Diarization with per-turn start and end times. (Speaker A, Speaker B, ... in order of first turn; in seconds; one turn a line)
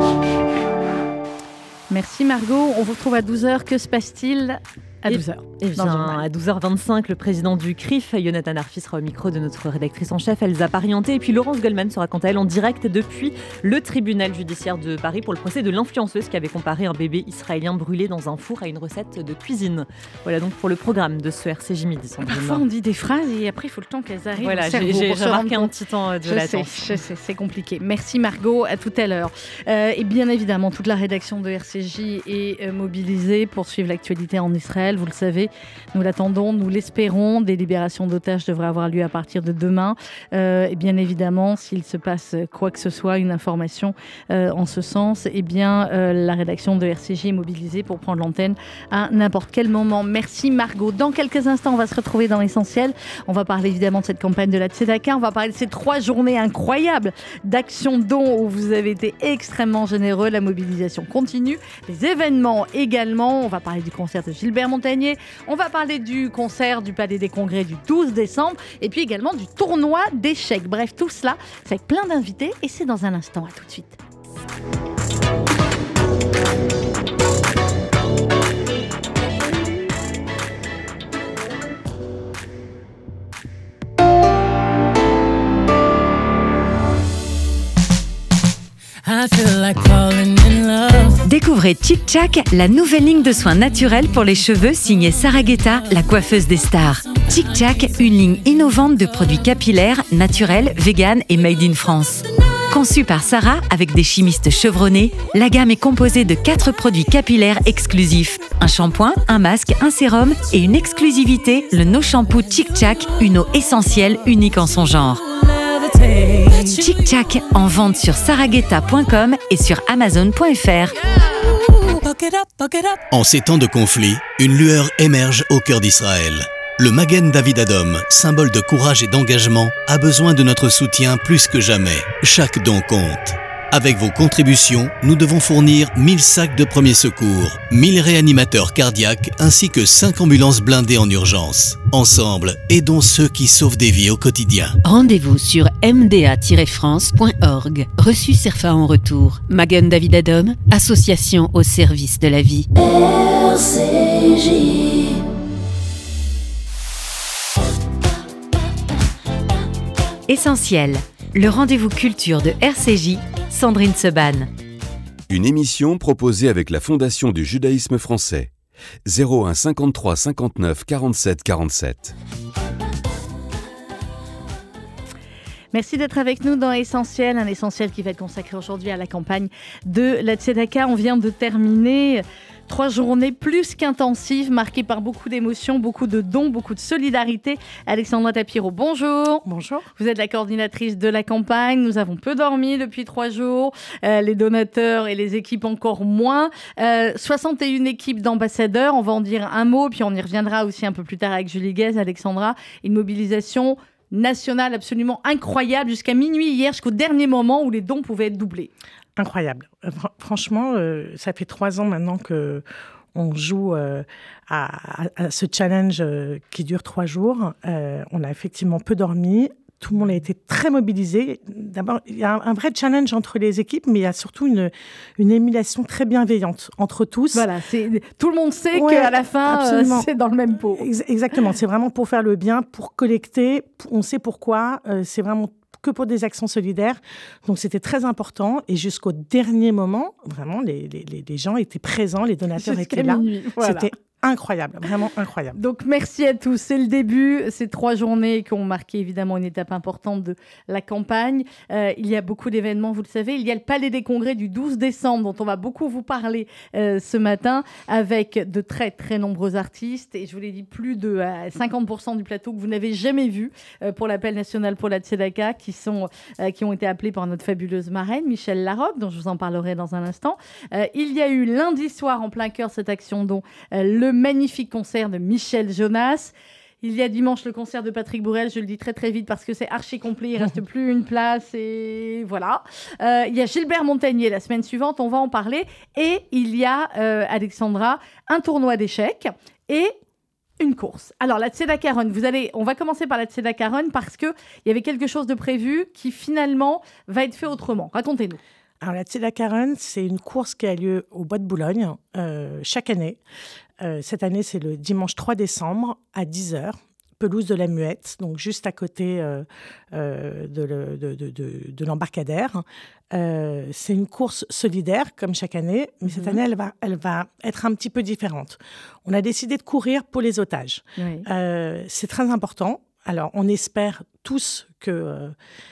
Speaker A: 1.9-6.2
Speaker B: 5.1-22.6
Speaker A: 22.3-25.7
Speaker B: 24.4-27.0
Speaker A: 26.3-74.0
Speaker C: 89.0-91.2
Speaker D: 91.2-115.2
Speaker C: 115.4-117.0
Speaker D: 116.7-121.0
Speaker C: 121.4-123.0
Speaker E: 123.1-144.8
Speaker C: 144.8-152.7
Speaker D: 160.3-164.5
Speaker F: 165.3-168.5
Speaker F: 169.1-172.2
Speaker A: 175.7-189.4
Speaker G: 189.5-189.8
Speaker A: 190.0-208.7
Speaker G: 209.2-212.6
Speaker G: 213.2-227.5
Speaker A: 227.3-230.9
Speaker G: 228.7-230.1
Speaker G: 230.8-245.6
Speaker A: 242.6-243.9
Speaker A: 245.6-289.9
Speaker A: 290.6-298.4
Speaker G: 298.8-303.2
Speaker G: 303.8-325.4
Speaker A: 316.1-316.4
Speaker A: 321.0-321.3